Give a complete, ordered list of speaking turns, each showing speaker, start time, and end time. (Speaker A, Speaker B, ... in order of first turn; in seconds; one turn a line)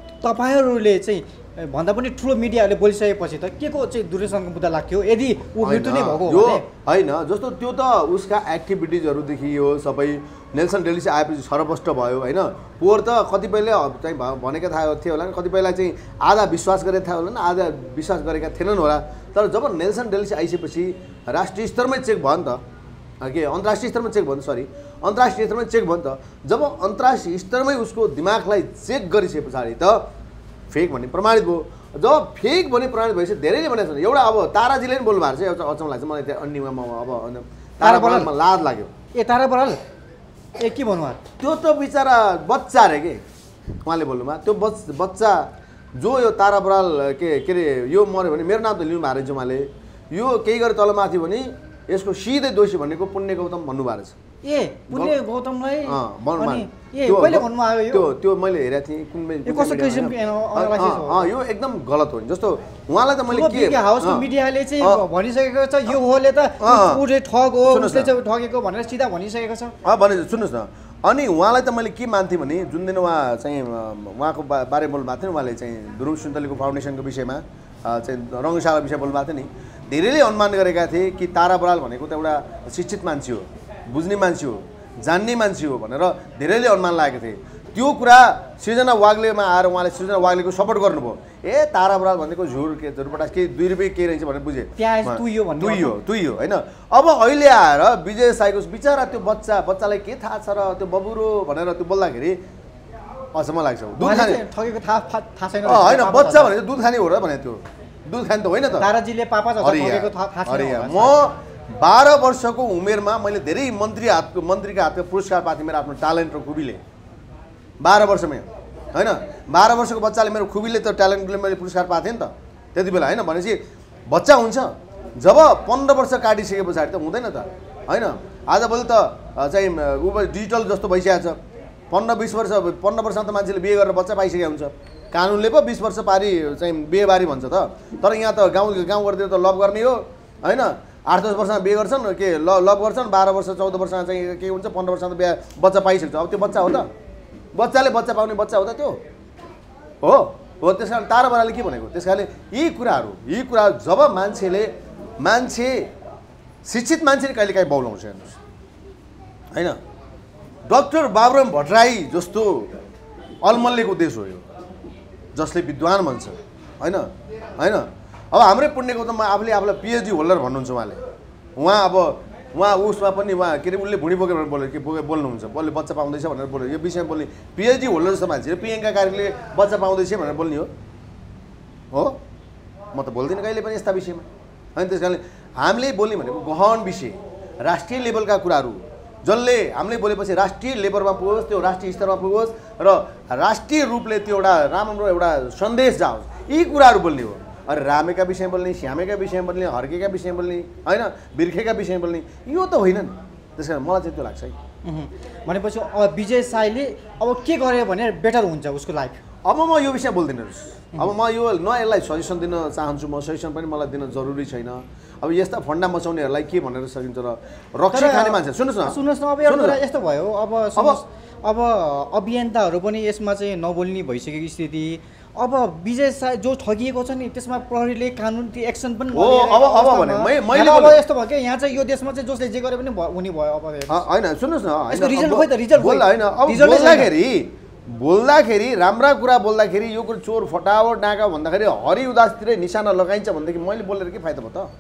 Speaker A: 0.2-6.6
Speaker B: 5.6-22.6
Speaker B: 23.2-30.1
Speaker B: 30.7-38.9
Speaker A: 37.8-38.3
Speaker A: 39.1-39.8
Speaker A: 40.6-41.2
Speaker B: 41.4-43.2
Speaker B: 43.9-54.1
Speaker A: 54.4-58.1
Speaker B: 55.9-64.3
Speaker A: 59.5-61.3
Speaker A: 63.3-69.8
Speaker B: 66.6-67.0
Speaker B: 67.7-68.1
Speaker B: 69.8-102.4
Speaker A: 94.8-96.0
Speaker B: 103.3-104.4
Speaker A: 104.0-106.5
Speaker B: 105.6-108.9
Speaker A: 108.8-111.1
Speaker B: 109.6-116.8
Speaker B: 117.8-131.4
Speaker B: 131.9-146.9
Speaker B: 147.5-149.0
Speaker B: 150.0-155.9
Speaker B: 156.7-158.4
Speaker B: 160.7-162.7
Speaker B: 163.4-164.4
Speaker B: 165.3-171.0
Speaker B: 171.6-180.7
Speaker B: 181.9-182.2
Speaker B: 182.9-204.5
Speaker A: 204.8-209.2
Speaker B: 209.4-219.8
Speaker A: 217.9-234.0
Speaker B: 229.1-231.0
Speaker B: 233.9-244.7
Speaker A: 234.9-237.1